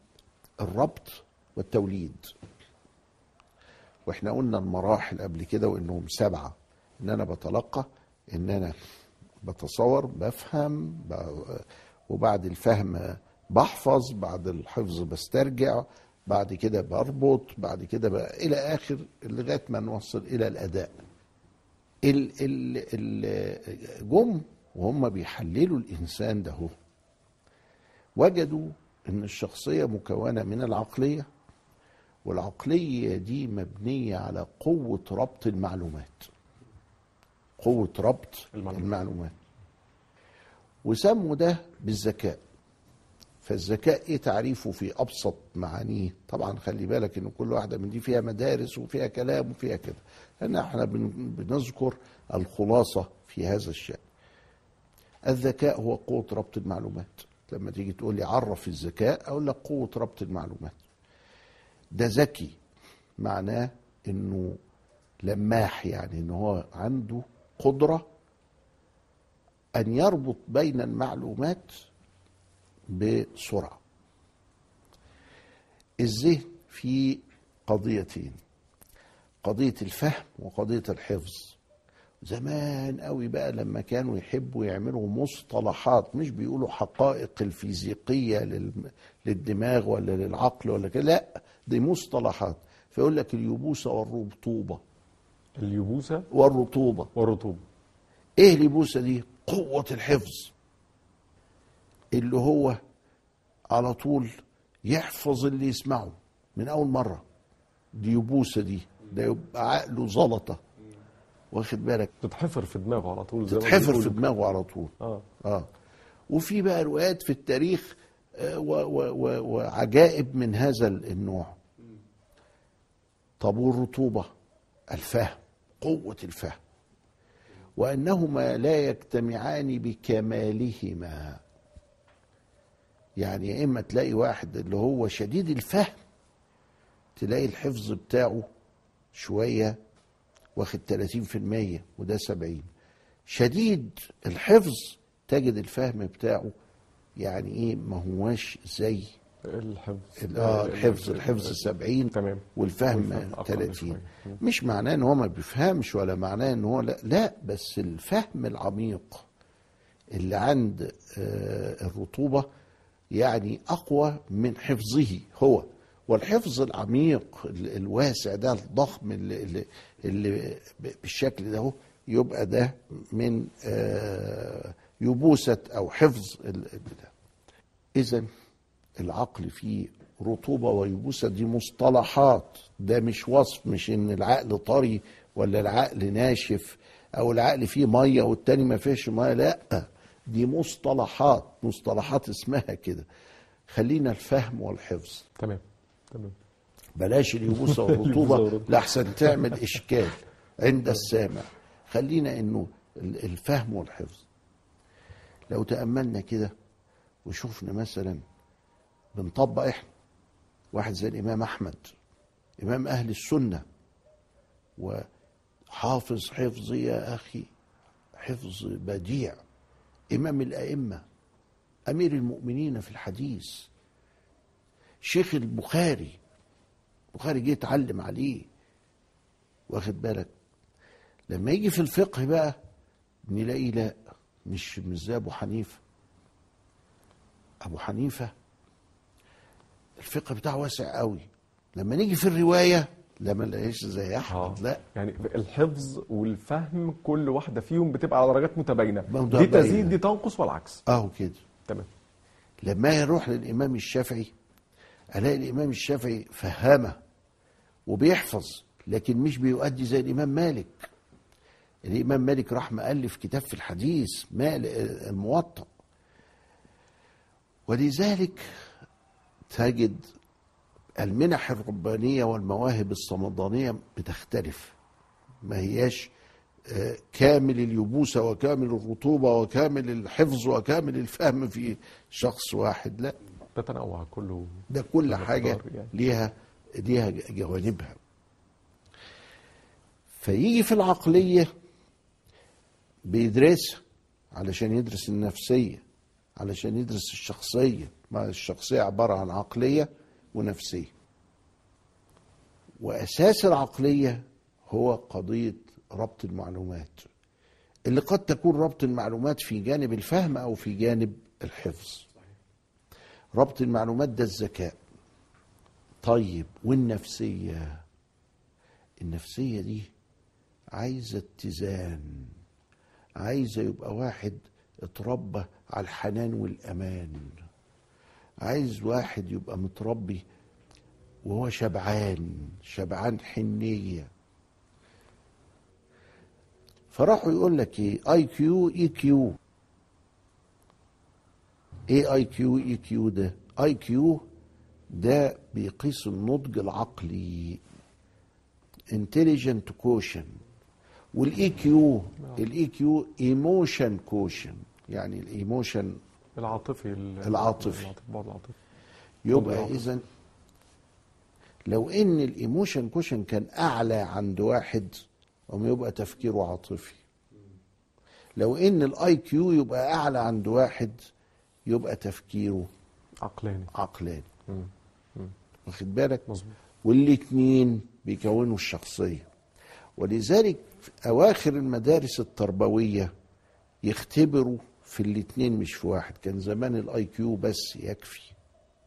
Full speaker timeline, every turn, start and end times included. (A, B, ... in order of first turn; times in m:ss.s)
0:00.6-0:02.3 A
0:04.1-0:08.8 A
0:09.4-0:21.0 A
0:22.0-0:26.7 A
0:28.2-0:31.3 A
0:32.2-0:36.3 A
0:37.6-0:39.4 A
0:38.5-0:38.9 B
0:40.8-0:42.4 A
0:43.4-0:54.0 A
0:55.3-1:00.8 A
1:02.0-1:02.6 A
1:03.2-1:04.6 A
1:05.2-1:08.1 A
1:09.8-1:11.7 A
1:12.9-1:13.8 A
1:16.0-1:18.4 A
1:19.4-1:21.6 A
1:22.2-1:34.8 A
1:35.6-1:36.3 B
1:36.3-1:37.1 A
1:37.2-1:37.6 B
1:38.4-1:40.5 A
1:42.1-1:42.8 A
1:43.7-1:44.3 A
1:44.9-1:47.2 A
1:47.9-1:50.6 A
1:51.5-1:52.1 A
1:52.2-1:54.2 B
1:53.5-1:55.7 A
1:55.0-1:55.3 B
1:56.3-2:01.6 A
2:03.4-2:04.3 A
2:04.9-2:06.6 A
2:07.8-2:11.4 A
2:13.2-2:16.0 A
2:17.2-2:18.4 A
2:19.1-2:19.8 A
2:20.6-2:22.7 A
2:23.3-2:26.5 A
2:27.2-2:29.2 A
2:29.4-2:34.4 B
2:30.2-2:39.3 A
2:40.2-2:42.5 A
2:43.1-2:57.1 A
2:58.0-2:58.3 A
2:59.0-3:13.1 A
3:13.7-3:15.3 A
3:15.4-3:16.4 B
3:17.0-3:24.2 A
3:17.5-3:19.6 B
3:25.5-3:26.5 A
3:27.2-3:28.2 A
3:29.2-3:29.9 A
3:30.7-3:31.9 A
3:32.6-3:33.6 A
3:34.8-3:35.1 A
3:35.7-3:37.5 A
3:38.2-3:39.4 A
3:40.1-3:41.0 A
3:41.9-3:43.7 A
3:45.0-3:46.2 A
3:47.1-3:48.5 A
3:49.7-3:50.3 A
3:51.3-3:52.6 A
3:53.3-3:55.8 A
3:57.6-3:58.3 A
4:00.0-4:04.8 A
4:04.3-4:10.8 B
4:09.1-4:10.0 A
4:10.9-4:11.4 A
4:12.6-4:14.3 A
4:15.2-4:17.0 A
4:17.9-4:20.9 A
4:21.9-4:25.7 A
4:27.7-4:28.7 A
4:29.5-4:30.0 A
4:31.0-4:34.8 A
4:35.4-4:36.1 A
4:36.7-4:43.2 A
4:43.6-4:46.0 B
4:44.7-4:48.0 A
4:50.2-4:51.5 A
4:53.1-4:55.8 A
4:56.4-5:00.9 A
5:02.8-5:07.1 A
5:07.9-5:12.1 A
5:13.4-5:14.8 A
5:16.0-5:17.8 A
5:19.0-5:19.9 A
5:20.8-5:22.3 A
5:23.2-5:27.4 A
5:28.4-5:30.2 A
5:31.2-5:34.1 A
5:36.9-5:39.4 A
5:41.9-5:44.2 A
5:44.9-5:47.6 A
5:48.9-5:50.4 A
5:51.1-5:56.0 A
5:56.4-5:58.6 B
5:57.2-5:57.9 A
5:59.2-6:00.0 A
5:59.3-5:59.9 B
6:01.7-6:04.9 A
6:05.5-6:07.0 A
6:08.4-6:11.0 A
6:11.7-6:12.7 A
6:13.2-6:13.7 B
6:13.7-6:14.3 A
6:15.6-6:16.2 A
6:16.3-6:16.5 B
6:16.8-6:19.3 A
6:20.0-6:23.1 A
6:23.8-6:28.4 A